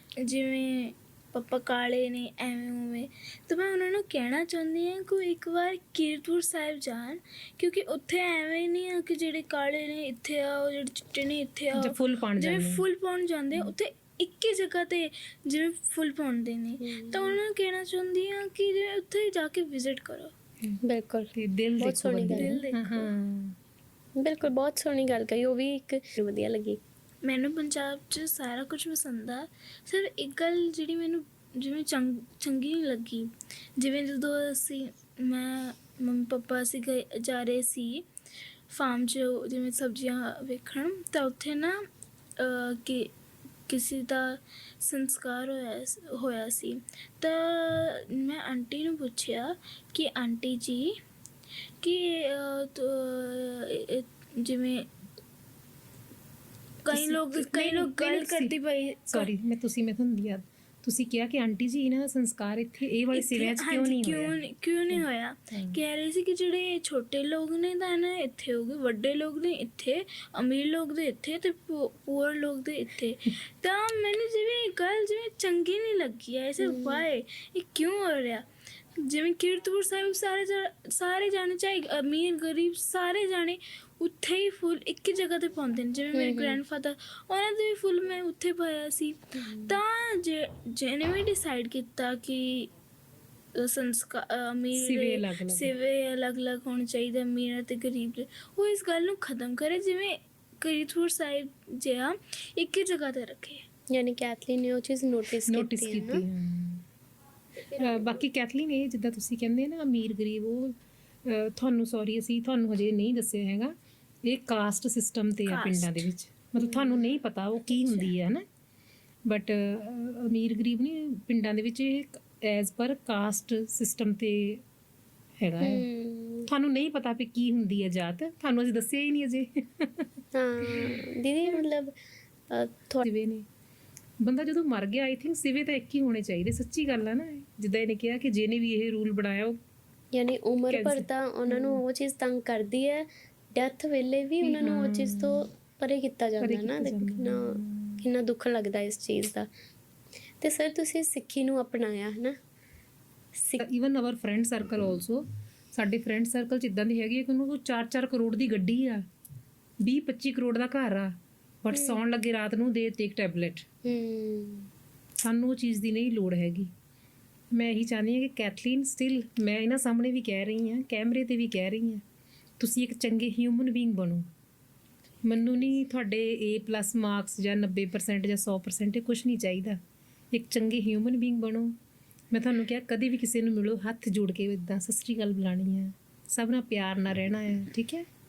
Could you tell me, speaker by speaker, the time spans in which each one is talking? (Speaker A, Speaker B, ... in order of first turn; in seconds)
Speaker A: 0.2-20.3, 22.3-23.1, 27.2-38.1, 38.7-41.9, 42.4-43.1, 43.7-50.9, 51.8-54.9, 56.9-59.3, 63.1-78.4, 79.0-92.7, 93.5-103.6, 107.7-108.2, 115.5-116.1
Speaker B: 11.8-12.8, 21.4-23.6, 56.9-58.5, 59.1-64.4, 64.9-65.8, 94.8-95.7, 105.5-106.8, 107.8-113.7, 114.3-118.4, 119.3-124.6, 125.4-125.8, 126.5-130.1, 130.7-131.7, 133.0-133.4, 134.2-139.6, 140.7-141.8, 144.4-145.5, 146.4-148.1, 153.6-159.0, 159.8-161.1, 161.6-163.7, 165.2-166.7, 167.5-172.0, 172.6-174.3, 175.2-179.8, 180.3-181.8, 182.3-188.1
Speaker C: 16.8-17.4, 20.8-22.6, 24.2-26.8, 76.6-77.1, 86.1-86.6, 89.4-89.8, 103.9-106.2, 116.6-117.2, 125.6-126.5, 130.3-132.0, 132.5-133.0, 140.1-149.5, 150.4-152.3, 153.3-153.7, 161.7-162.0, 163.8-164.7